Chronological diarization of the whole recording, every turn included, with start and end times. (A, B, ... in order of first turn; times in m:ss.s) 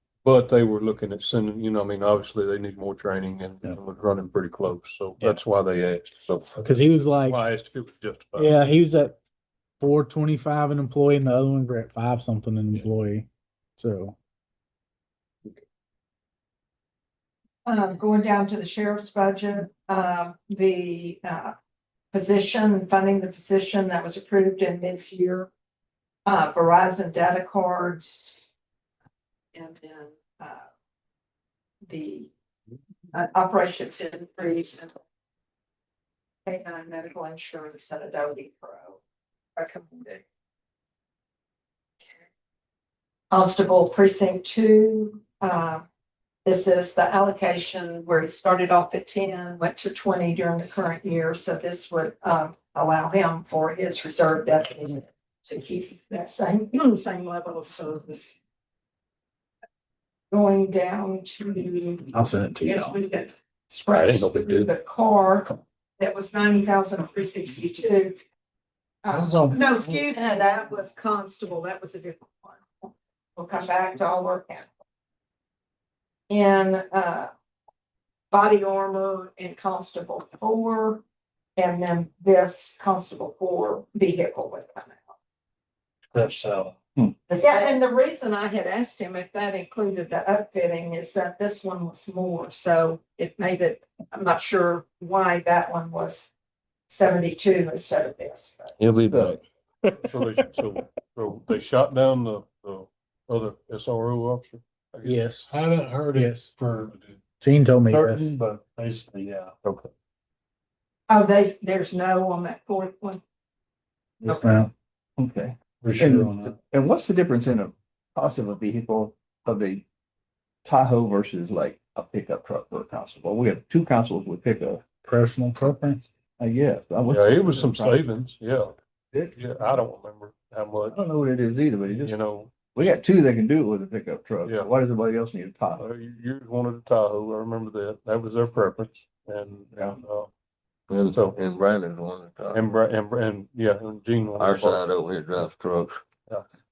0:00.2-0:08.6 A
0:06.6-0:07.4 B
0:08.4-0:09.2 B
0:09.8-0:14.1 B
0:17.6-0:21.5 C
0:22.1-0:25.5 C
0:26.2-0:28.4 C
0:29.5-0:30.6 C
0:31.9-0:32.3 C
0:33.1-0:34.9 C
0:36.4-0:39.0 C
0:39.6-0:40.2 C
0:43.3-0:45.8 C
0:46.4-0:58.4 C
1:00.3-1:08.2 C
1:02.1-1:03.0 B
1:03.9-1:04.7 A
1:09.0-1:14.6 C
1:09.1-1:10.5 D
1:16.3-1:17.3 C
1:18.3-1:21.0 C
1:21.6-1:25.1 C
1:26.1-1:26.8 D
1:27.3-1:36.3 C
1:36.9-1:38.8 C
1:38.8-1:39.4 E
1:39.0-1:39.4 F
1:40.1-1:45.2 A
1:45.0-1:45.5 B
1:45.5-1:46.9 D
1:46.1-1:46.5 B
1:46.9-1:47.2 A
1:47.4-1:48.3 B
1:48.0-1:49.5 D
1:51.1-1:53.2 C
1:54.2-1:54.7 B
1:54.2-1:54.6 C
1:55.2-1:59.8 F
1:55.8-1:56.6 D
2:00.6-2:04.8 F
2:05.0-2:06.0 B
2:06.4-2:08.1 F
2:07.1-2:08.8 A
2:09.3-2:11.0 A
2:10.9-2:12.2 F
2:11.9-2:12.5 A
2:12.7-2:15.8 F
2:15.8-2:20.3 A
2:20.9-2:22.6 E
2:21.0-2:21.4 A
2:22.5-2:24.8 A
2:24.4-2:26.0 E